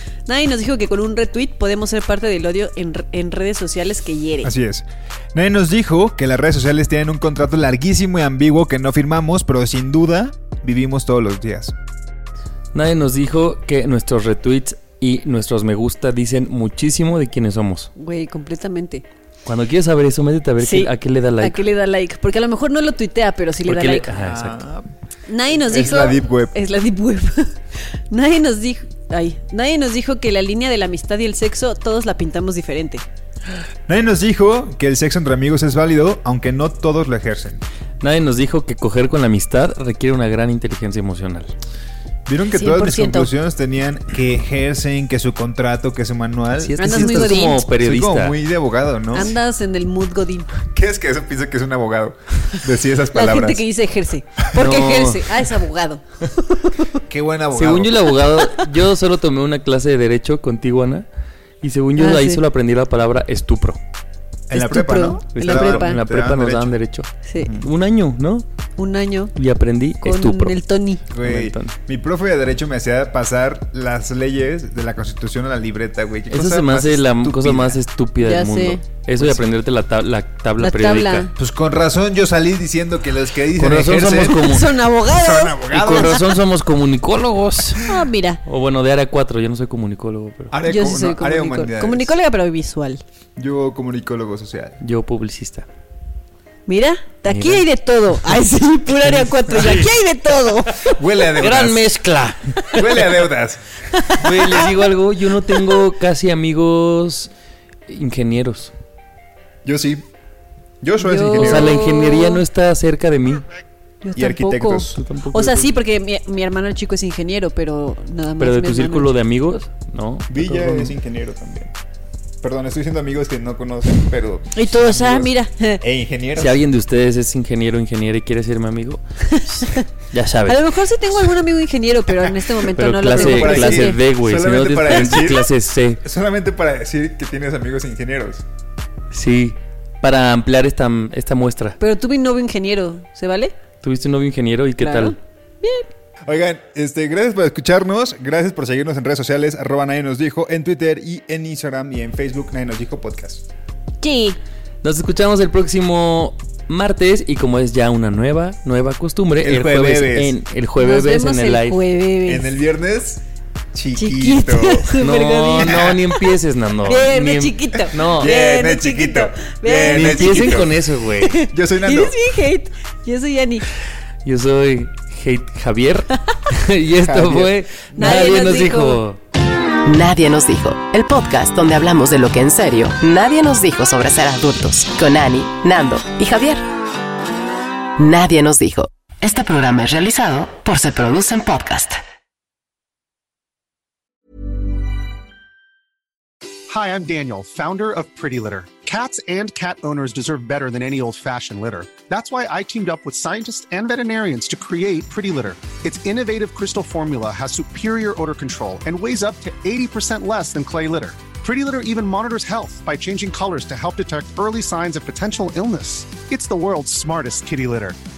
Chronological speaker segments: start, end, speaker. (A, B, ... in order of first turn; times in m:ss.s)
0:00.3-0:04.5 A
0:04.4-0:11.7 B
0:12.7-0:17.9 C
0:18.0-0:19.0 A
0:19.4-0:21.6 C
0:20.6-0:24.1 A
0:23.6-0:24.6 C
0:24.2-0:24.9 B
0:25.3-0:27.6 A
0:25.5-0:26.6 B
0:28.1-0:33.0 A
0:33.9-0:37.6 B
0:38.0-0:41.5 C
0:42.3-0:49.4 B
0:42.5-0:43.3 A
0:46.6-0:48.4 C
0:46.8-0:47.6 A
0:49.1-0:50.5 A
0:50.6-0:53.6 B
0:53.1-0:57.0 A
0:54.6-0:55.4 C
0:57.1-0:58.2 B
0:57.5-1:01.0 C
1:01.6-1:03.8 C
1:02.0-1:02.4 A
1:04.5-1:06.8 B
1:04.5-1:06.0 A
1:05.4-1:08.5 C
1:07.3-1:07.5 A
1:07.4-1:07.7 B
1:08.8-1:09.3 A
1:09.4-1:10.6 C
1:10.0-1:11.0 A
1:11.1-1:17.8 B
1:11.2-1:11.8 C
1:16.3-1:21.3 C
1:18.2-1:18.8 A
1:19.2-1:19.4 B
1:20.6-1:21.3 A
1:21.4-1:26.3 B
1:23.6-1:24.7 C
1:24.3-1:26.2 A
1:25.7-1:27.9 C
1:27.8-1:28.4 A
1:28.4-1:30.5 C
1:30.5-1:32.2 B
1:30.7-1:33.0 A
1:33.4-1:34.8 B
1:34.8-1:35.7 C
1:36.7-1:41.0 A
1:37.3-1:37.6 C
1:39.5-1:39.9 C
1:40.8-1:41.8 B
1:41.4-1:42.8 C
1:42.7-1:43.9 B
1:44.0-1:44.6 A
1:44.2-1:47.3 C
1:47.9-1:48.7 C
1:49.6-1:50.0 B
1:50.8-1:51.9 B
1:51.0-1:52.4 A
1:51.4-1:53.4 C
1:54.0-1:59.1 A
1:54.2-1:54.9 B
1:55.0-1:55.8 C
1:58.4-2:01.0 C
2:00.3-2:01.7 B
2:02.4-2:06.6 B
2:04.6-2:05.8 A
2:06.4-2:10.6 C
2:09.3-2:09.8 A
2:10.5-2:14.0 A
2:12.8-2:16.0 C
2:13.1-2:15.5 B
2:14.9-2:15.3 A
2:16.0-2:18.4 B
2:19.1-2:21.8 C
2:21.8-2:23.5 A
2:23.8-2:25.2 C
2:24.8-2:25.9 A
2:26.3-2:33.5 B
2:34.0-2:34.4 A
2:34.8-2:41.8 C
2:39.4-2:40.3 B
2:40.8-2:42.6 A
2:42.3-2:44.9 B
2:44.0-2:46.0 A
2:45.0-2:48.3 C
2:45.6-2:46.0 B
2:46.8-2:53.7 A
2:48.0-2:50.8 B
2:49.9-2:51.4 C
2:51.4-2:52.2 B
2:54.2-2:59.2 C
2:57.0-2:57.6 B
2:58.0-2:59.0 A
2:59.8-3:06.7 D
3:08.0-3:12.0 D
3:16.7-3:38.0 E